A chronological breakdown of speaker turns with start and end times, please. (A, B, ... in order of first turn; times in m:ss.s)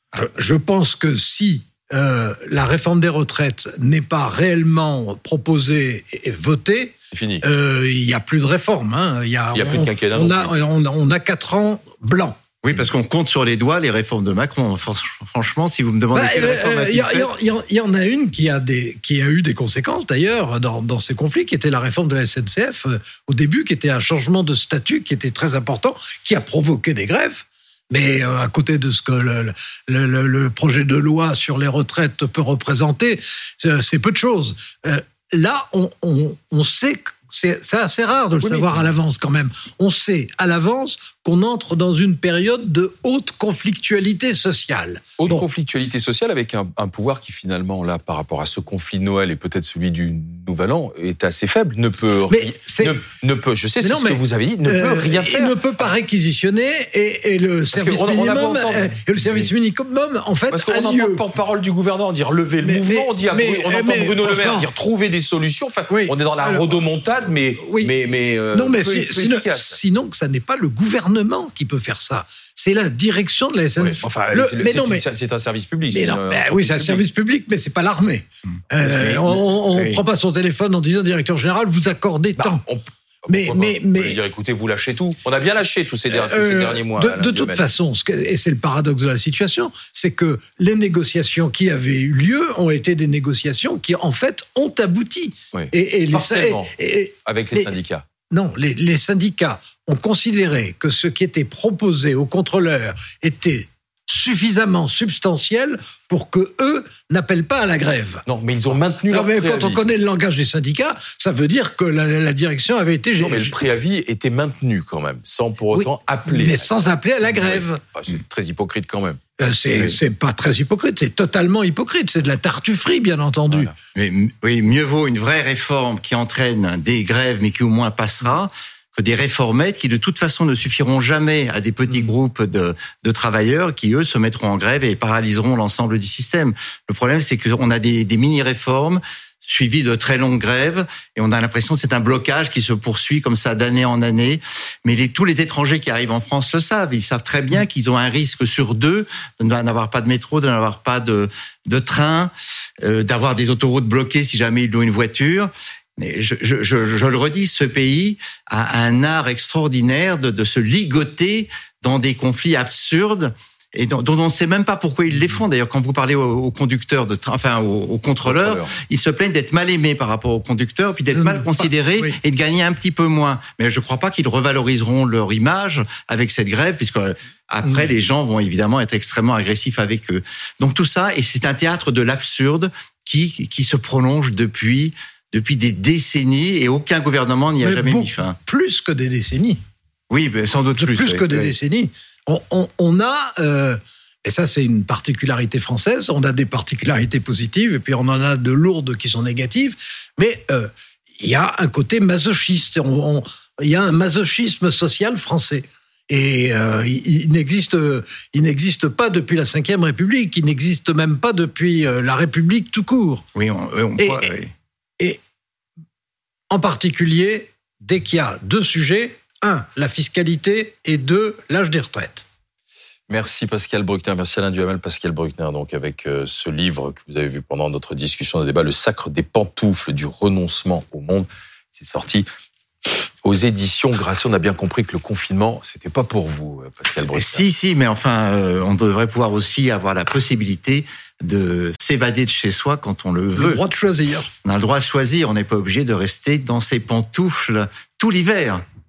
0:00.1-0:12.4 A
0:07.1-0:07.4 B
0:09.5-0:10.5 B
0:12.6-0:17.3 C
0:16.1-0:45.5 A
0:38.4-0:38.8 B
0:45.2-0:55.9 B
0:52.3-0:53.0 A
0:53.8-1:01.2 A
0:57.7-0:59.5 B
1:00.5-1:09.8 B
1:02.6-1:04.7 A
1:05.9-1:06.8 A
1:07.6-1:07.9 A
1:08.5-1:15.0 A
1:13.8-1:17.0 B
1:15.9-1:22.6 A
1:18.8-1:20.0 C
1:22.4-1:27.7 B
1:23.3-1:24.2 A
1:26.1-1:37.8 A
1:35.5-1:36.7 B
1:37.3-1:38.0 B
1:38.3-1:48.2 A
1:48.3-1:49.8 B
1:49.1-1:53.6 A
1:53.2-1:59.2 B
1:55.7-1:57.8 A
1:59.4-2:03.7 A
2:04.0-2:32.3 C
2:32.8-3:08.4 C
2:48.2-2:48.8 B
2:51.1-2:52.2 A
3:07.6-3:09.6 A
3:10.1-3:11.6 C
3:10.8-3:33.2 A
3:33.4-3:34.5 C
3:34.0-3:34.3 A
3:36.5-3:42.3 A
3:43.1-3:52.3 B
3:53.2-3:57.4 B
3:57.1-4:03.6 C
4:03.4-4:04.3 A
4:04.4-4:08.6 C